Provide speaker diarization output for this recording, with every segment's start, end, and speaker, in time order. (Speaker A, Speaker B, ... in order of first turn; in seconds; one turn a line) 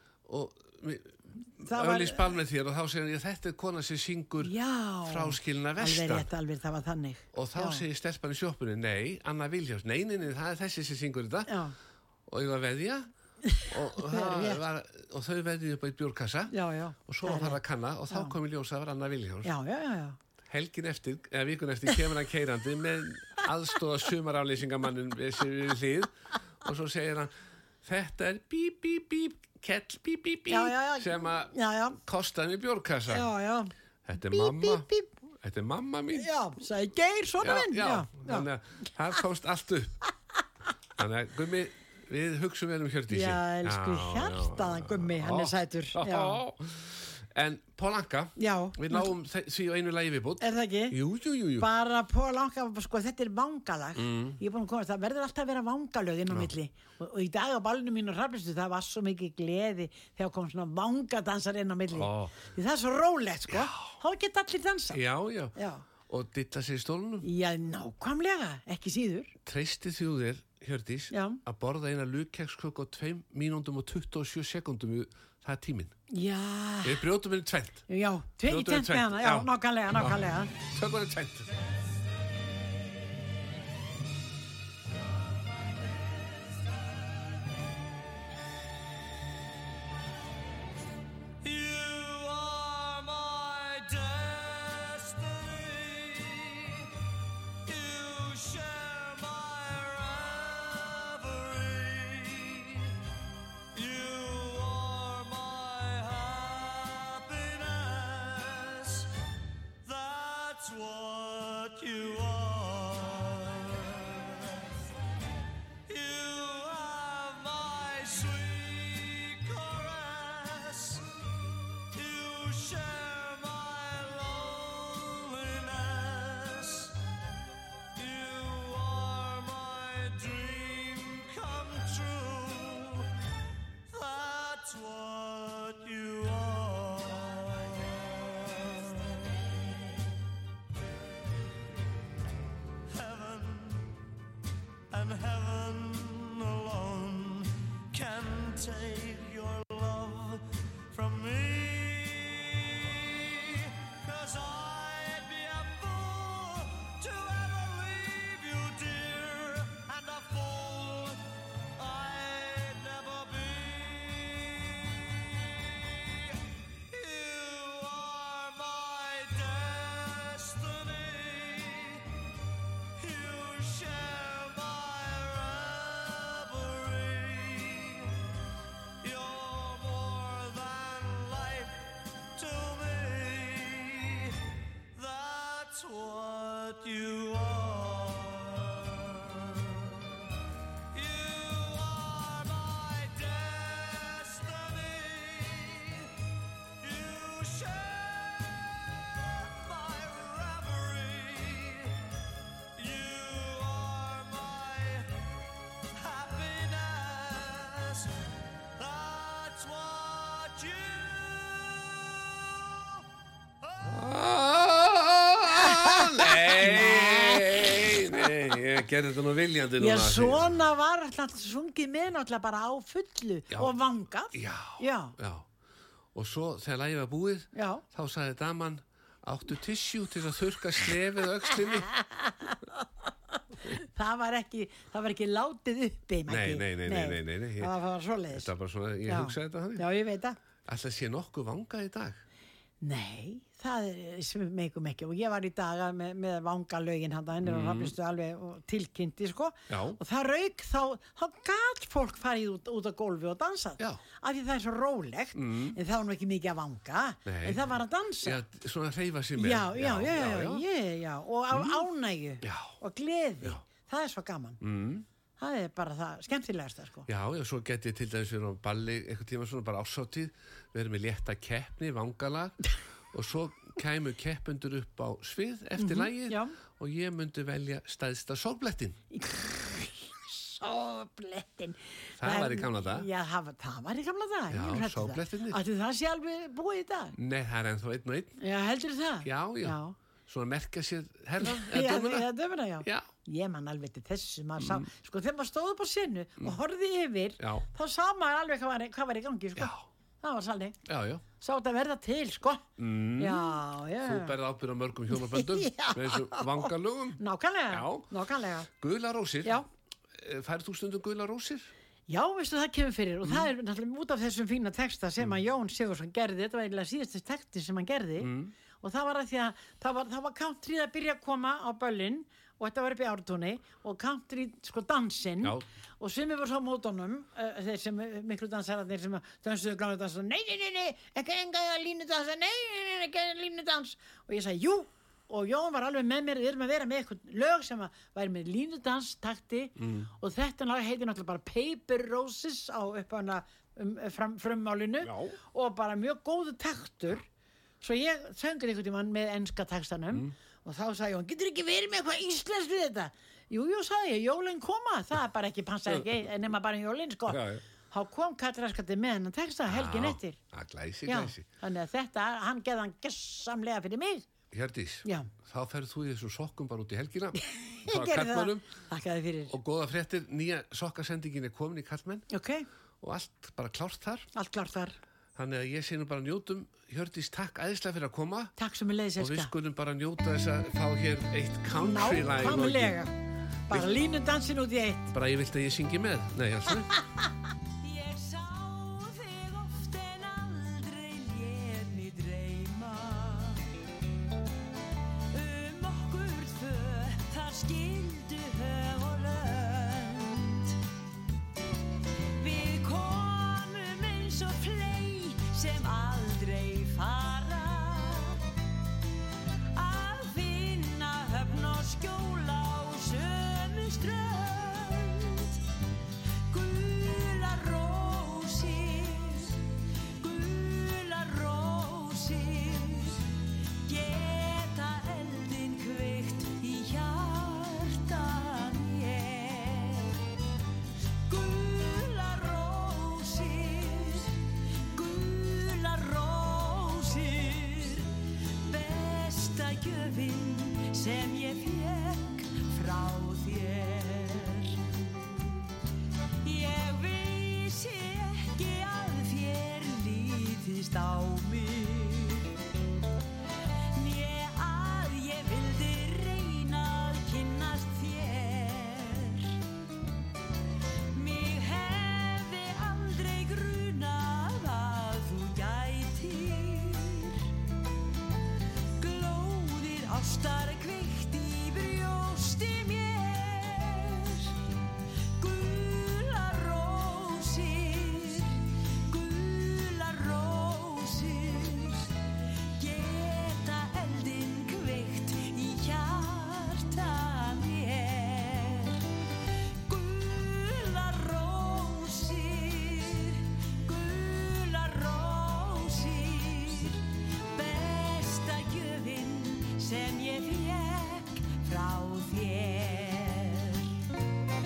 Speaker A: 0.2-6.3
Speaker B: 1.6-2.3
Speaker B: 4.4-7.8
Speaker A: 7.3-11.6
Speaker B: 11.5-11.7
Speaker A: 12.3-13.1
Speaker B: 13.5-14.6
Speaker A: 13.7-16.5
Speaker B: 16.5-17.6
Speaker A: 17.1-19.5
Speaker B: 18.1-18.3
Speaker B: 19.4-20.2
Speaker A: 20.4-27.3
Speaker A: 27.8-33.3
Speaker B: 30.5-32.0
Speaker B: 33.1-35.1
Speaker A: 34.0-34.9
Speaker A: 35.4-36.3
Speaker B: 36.1-38.5
Speaker A: 37.4-40.0
Speaker A: 41.0-51.7
Speaker B: 43.1-46.4
Speaker B: 48.4-49.1
Speaker B: 50.4-51.0
Speaker B: 51.6-65.0
Speaker A: 54.0-54.4
Speaker A: 61.9-62.4
Speaker A: 63.5-63.9
Speaker A: 64.9-65.5
Speaker B: 65.5-65.8
Speaker A: 66.1-67.3
Speaker B: 67.2-69.3
Speaker A: 69.4-75.9
Speaker B: 71.1-71.4
Speaker B: 76.1-77.0
Speaker A: 76.8-77.9
Speaker B: 77.9-80.5
Speaker A: 78.4-81.5
Speaker C: 91.4-96.9
Speaker C: 97.6-103.0
Speaker C: 103.7-109.1
Speaker C: 109.8-114.7
Speaker C: 115.9-121.0
Speaker C: 121.9-127.0
Speaker C: 128.0-133.1
Speaker C: 133.9-139.6
Speaker C: 142.9-143.9
Speaker C: 144.9-161.2
Speaker C: 161.7-166.4
Speaker C: 166.9-172.0
Speaker C: 173.0-178.1
Speaker C: 179.0-184.4
Speaker C: 184.9-190.2
Speaker C: 190.9-196.1
Speaker C: 196.8-202.1
Speaker C: 202.8-205.2
Speaker C: 205.9-208.1
Speaker C: 208.8-213.0
Speaker C: 213.6-213.9
Speaker A: 213.8-220.5
Speaker B: 215.5-218.1
Speaker B: 219.8-225.1
Speaker A: 224.3-225.5
Speaker A: 226.1-231.9
Speaker B: 227.5-227.8
Speaker B: 231.8-232.8
Speaker B: 233.6-238.5
Speaker A: 236.3-237.7
Speaker A: 238.3-239.9
Speaker B: 239.1-240.4
Speaker A: 240.7-242.2
Speaker B: 242.8-258.4
Speaker A: 247.4-247.9
Speaker A: 249.7-250.0
Speaker A: 255.3-255.8
Speaker A: 257.2-257.6
Speaker A: 258.2-260.6
Speaker B: 259.4-264.6
Speaker A: 261.5-261.8
Speaker A: 262.4-262.7
Speaker A: 264.6-265.0
Speaker B: 265.4-267.1
Speaker A: 267.1-279.0
Speaker B: 275.8-276.5
Speaker B: 279.1-287.1
Speaker A: 282.2-283.1
Speaker A: 284.5-285.6
Speaker A: 287.1-288.4
Speaker B: 288.4-289.9
Speaker A: 289.2-292.3
Speaker B: 291.4-300.8
Speaker A: 294.6-294.9
Speaker A: 297.4-297.6
Speaker A: 299.6-299.8
Speaker A: 300.9-301.2
Speaker B: 301.4-302.6
Speaker A: 302.8-308.1
Speaker B: 303.2-304.3
Speaker B: 305.1-308.7
Speaker A: 308.7-309.6
Speaker A: 310.1-311.7
Speaker B: 312.1-347.2
Speaker A: 318.2-318.5
Speaker A: 339.8-340.1
Speaker A: 345.0-345.4
Speaker B: 347.8-360.4
Speaker A: 357.3-357.6
Speaker A: 359.7-361.4
Speaker B: 361.1-364.2
Speaker A: 364.5-368.7
Speaker B: 367.4-369.5
Speaker A: 369.5-372.2
Speaker B: 372.3-372.7
Speaker A: 373.0-374.3
Speaker B: 374.3-375.0
Speaker A: 375.3-378.5
Speaker B: 378.6-379.5
Speaker A: 379.2-383.0
Speaker B: 381.8-383.1
Speaker B: 383.7-385.1
Speaker A: 385.1-386.9
Speaker D: 387.8-393.7
Speaker D: 395.3-400.8
Speaker D: 402.4-408.4
Speaker D: 409.7-415.6
Speaker D: 416.5-419.6
Speaker D: 420.2-430.2
Speaker D: 431.3-444.8
Speaker D: 446.4-452.5
Speaker D: 453.9-459.6
Speaker D: 461.1-467.5
Speaker D: 469.0-474.6
Speaker D: 475.4-482.1
Speaker D: 482.8-489.0
Speaker D: 489.8-503.9